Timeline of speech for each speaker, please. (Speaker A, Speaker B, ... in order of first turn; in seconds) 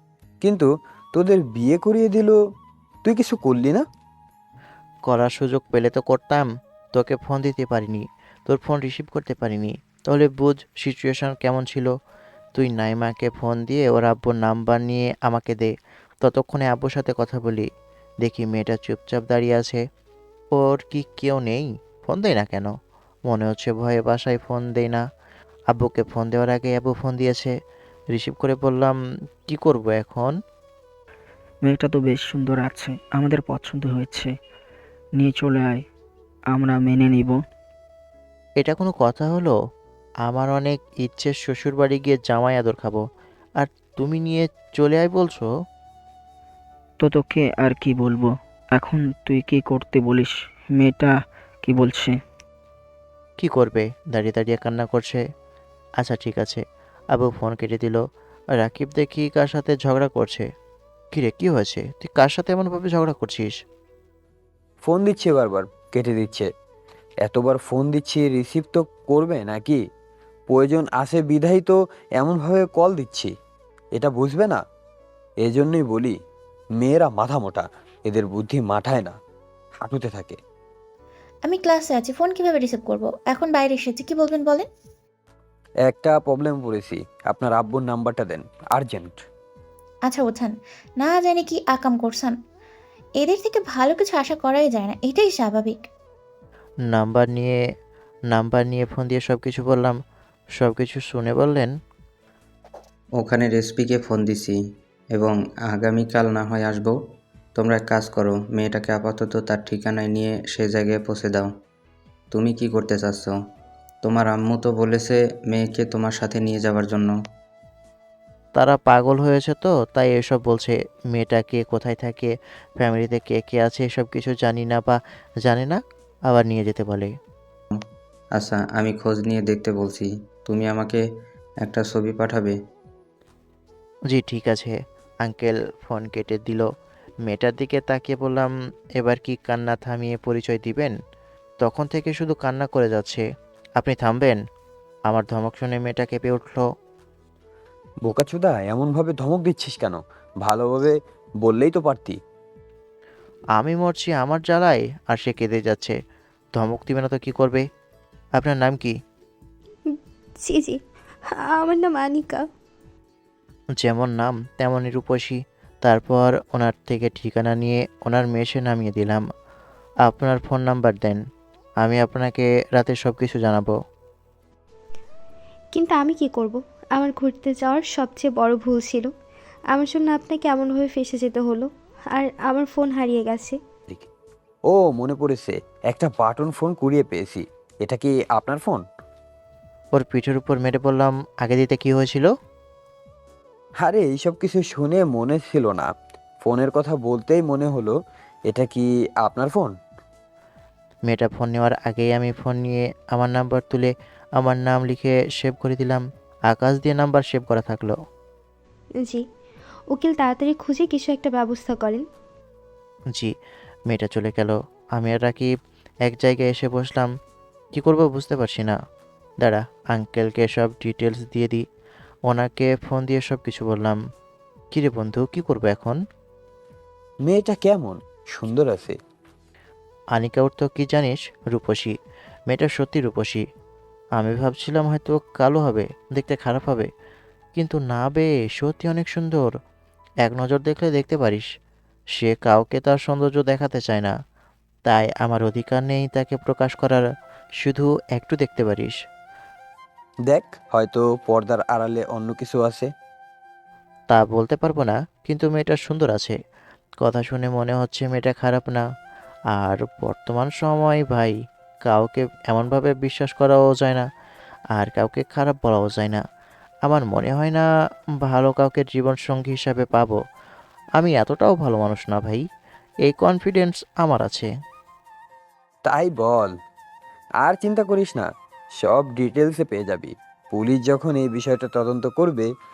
Speaker A: 0.4-2.4, 3.0-3.9, 64.8-66.5, 67.2-69.8, 70.5-73.3, 74.0-74.6, 75.4-76.2, 76.8-79.2, 79.8-80.4, 85.8-89.2, 148.1-152.2, 184.7-188.8, 193.8-197.9, 198.5-199.8, 227.3-229.0, 250.3-252.9, 275.9-276.6, 277.4-278.3, 278.8-282.5
Speaker B: 5.1-11.9, 12.6-17.7, 18.2-19.8, 20.5-22.8, 23.3-25.0, 25.7-27.5, 28.1-30.4, 38.6-39.6, 40.2-43.0, 43.6-45.5, 53.4-55.2, 56.0-58.0, 58.6-60.5, 61.1-63.6, 96.9-97.6, 98.3-100.0, 100.6-101.7, 118.6-127.1, 134.1-136.7, 137.3-141.0, 141.6-143.2, 143.8-144.4, 145.1-146.7, 153.6-156.0, 156.6-157.7, 158.4-158.9, 163.8-169.2, 170.1-171.2, 171.8-173.7, 189.9-192.3, 201.1-208.0, 213.9-215.5, 216.1-217.1, 217.8-218.8, 219.4-221.6, 222.3-224.0, 224.7-226.0, 230.1-231.9, 232.5-233.4, 234.2-236.9, 237.6-239.5, 240.2-241.5, 242.2-244.1, 244.9-247.1, 247.6-249.0, 254.1-256.4, 257.0-258.8, 259.5-264.1, 264.8-266.2, 266.9-267.7, 268.2-270.2, 271.0-272.4, 273.1-274.5
Speaker C: 31.6-34.4, 35.2-35.9, 36.5-37.4, 47.0-52.2
Speaker D: 81.5-84.7, 90.1-92.4, 93.2-95.9
Speaker E: 103.2-104.6, 105.2-107.0, 107.6-111.5, 112.3-113.4, 114.0-117.1, 128.4-131.0, 131.6-132.6
Speaker F: 159.9-160.8, 161.3-162.5, 175.7-179.1, 179.7-183.6, 209.9-212.1